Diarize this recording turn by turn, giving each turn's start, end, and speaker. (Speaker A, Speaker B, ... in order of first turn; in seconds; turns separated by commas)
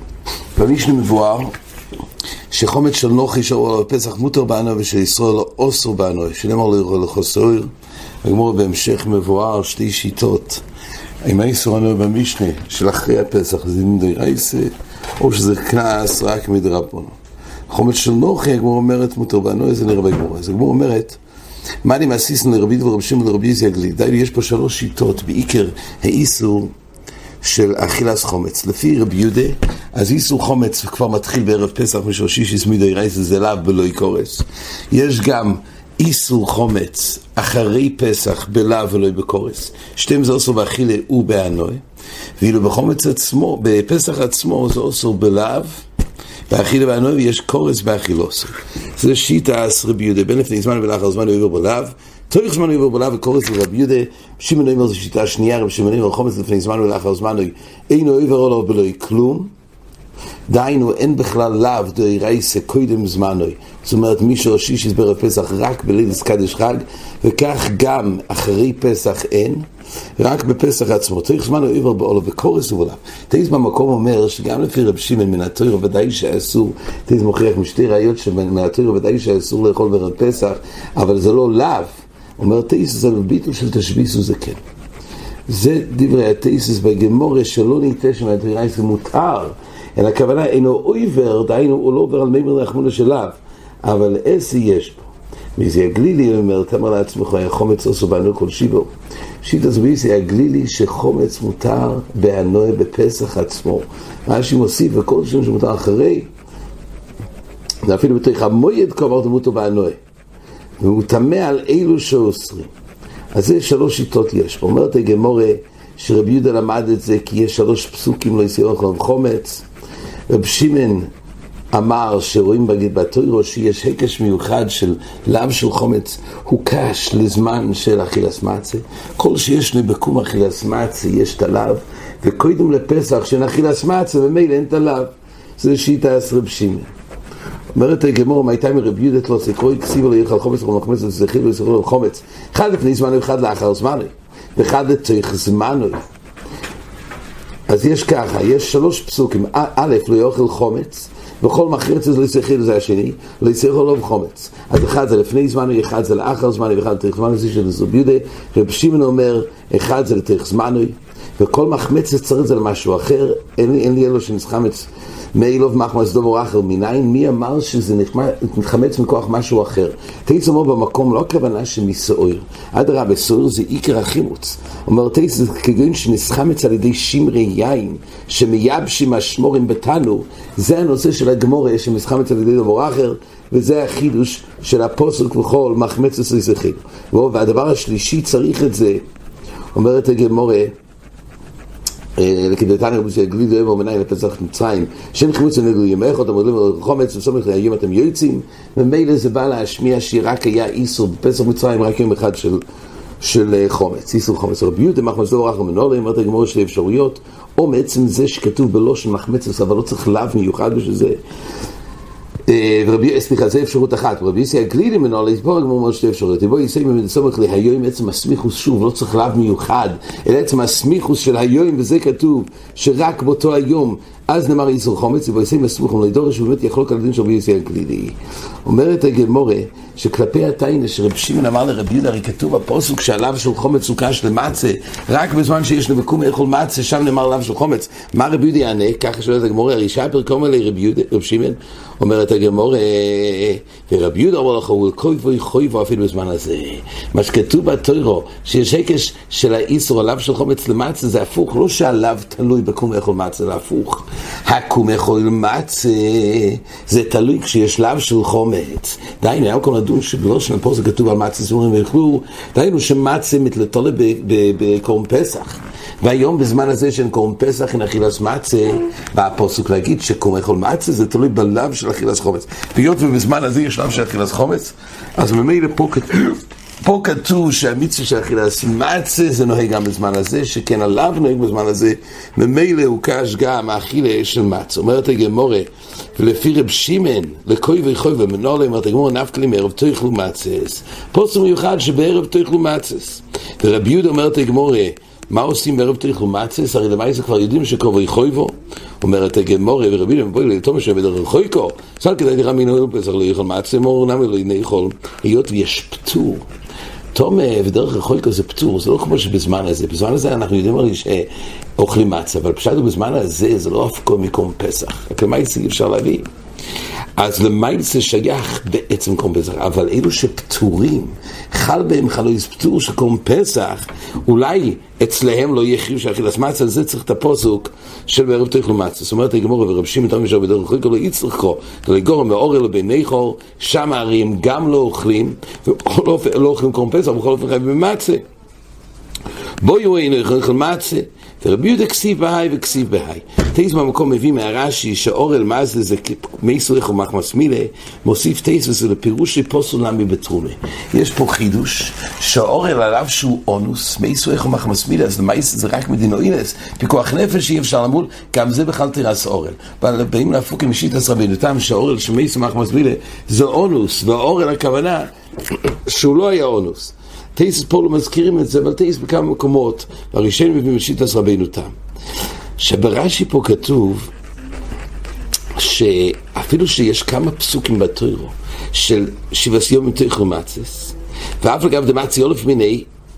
Speaker A: 0.5-1.5, Speaker A: 2.5-7.7, Speaker A: 8.2-10.6, Speaker A: 11.2-17.1, Speaker A: 17.7-21.2, Speaker A: 21.8-26.7, Speaker A: 27.4-41.8, Speaker A: 42.4-45.8, Speaker A: 46.5-59.5, Speaker A: 60.5-84.6, Speaker A: 85.5-98.9, Speaker A: 99.4-106.3, Speaker A: 107.8-110.0, Speaker A: 110.8-112.7, Speaker A: 113.3-119.7, Speaker A: 120.3-121.1, Speaker A: 121.7-136.9, Speaker A: 137.7-146.0, Speaker A: 147.7-189.0, Speaker A: 189.7-190.7, Speaker A: 192.2-202.6, Speaker A: 203.2-211.2, Speaker A: 212.5-306.4, Speaker A: 307.1-316.2, Speaker A: 317.2-338.2, Speaker A: 339.6-365.1, Speaker A: 365.8-371.7, Speaker A: 372.6-374.1, Speaker A: 375.6-382.9